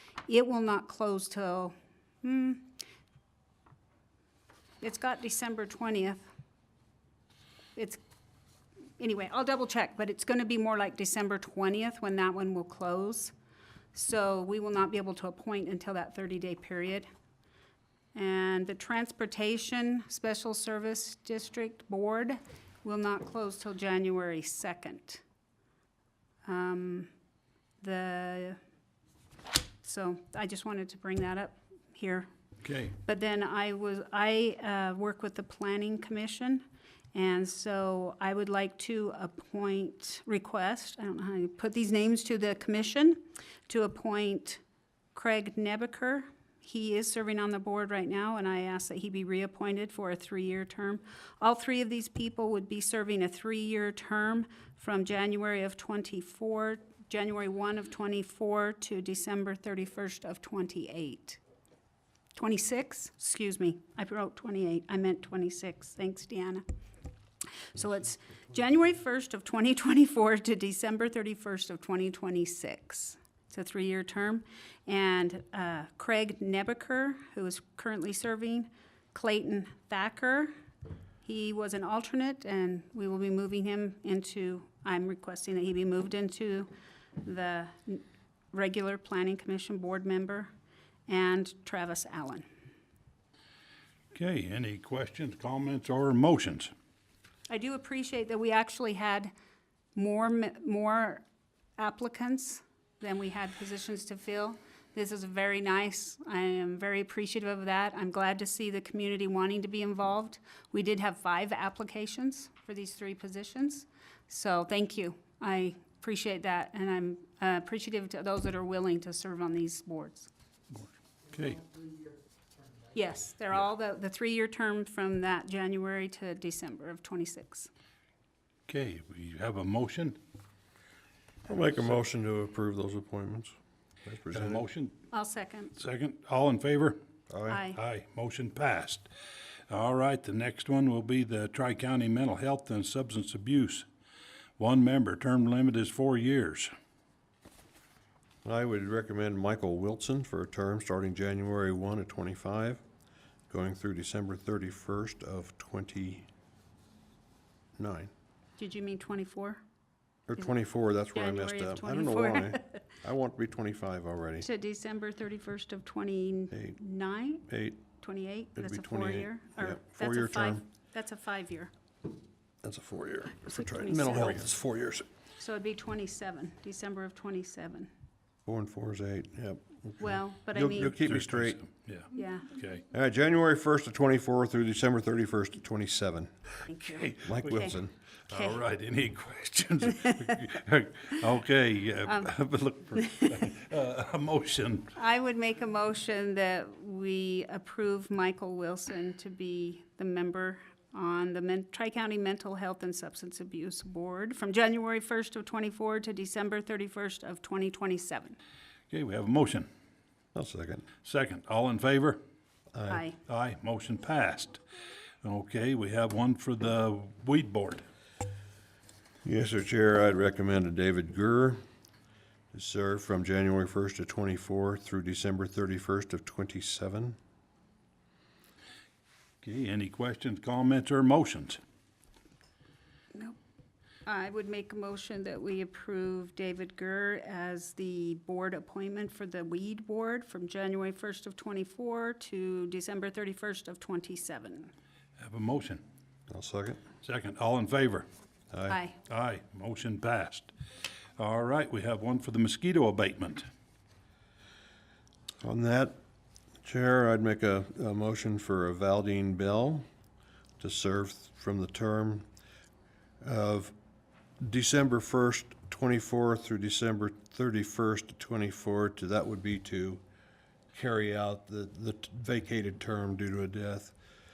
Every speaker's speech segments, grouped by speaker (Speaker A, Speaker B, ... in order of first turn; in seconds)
Speaker A: 0.3-2.7, 4.8-6.3, 7.8-8.0, 9.0-13.3, 13.9-17.1, 18.1-25.2, 26.4-27.1, 27.8-28.6, 29.8-32.3, 33.0-36.6, 37.1-44.6, 45.1-61.4, 62.3-66.6, 67.7-80.5, 81.2-86.7, 87.2-90.5, 91.1-92.4, 97.5-99.3, 99.9-101.2, 101.8-120.3, 122.9-127.7, 135.1-135.7, 137.5-137.8, 158.6-159.6, 161.1-162.8, 164.4-171.7, 173.5-174.4, 175.4-177.9, 180.0-180.9, 182.1-182.5, 188.3-188.6, 194.9-208.4, 212.9-213.2, 234.1-244.7, 248.7-249.0
Speaker B: 32.6-32.9, 94.1-96.7, 121.3-121.7, 128.7-130.2, 134.3-134.9, 135.8-137.0, 137.7-139.1, 139.7-143.9, 144.6-146.7, 180.9-182.8, 186.7-187.7, 188.3-194.9, 208.9-209.7, 211.0-212.2, 213.2-214.6, 215.2-217.8, 229.4-231.6, 245.2-245.8, 247.0-248.1, 249.1-250.5, 251.2-253.5
Speaker C: 131.5-133.5, 134.0-134.6, 137.3-137.6, 148.4-152.8, 153.5-156.3, 157.8-158.1, 160.3-164.5, 166.5-166.8, 167.5-167.8, 168.6-170.6, 172.6-175.1, 178.4-181.6, 182.9-186.3, 187.2-187.9, 210.3-210.9, 212.7-213.1, 219.2-221.6, 222.5-227.2, 246.3-246.8, 248.5-248.8, 255.4-255.9, 256.6-259.8, 260.6-262.2, 263.2-263.7, 264.4-270.0, 270.7-273.9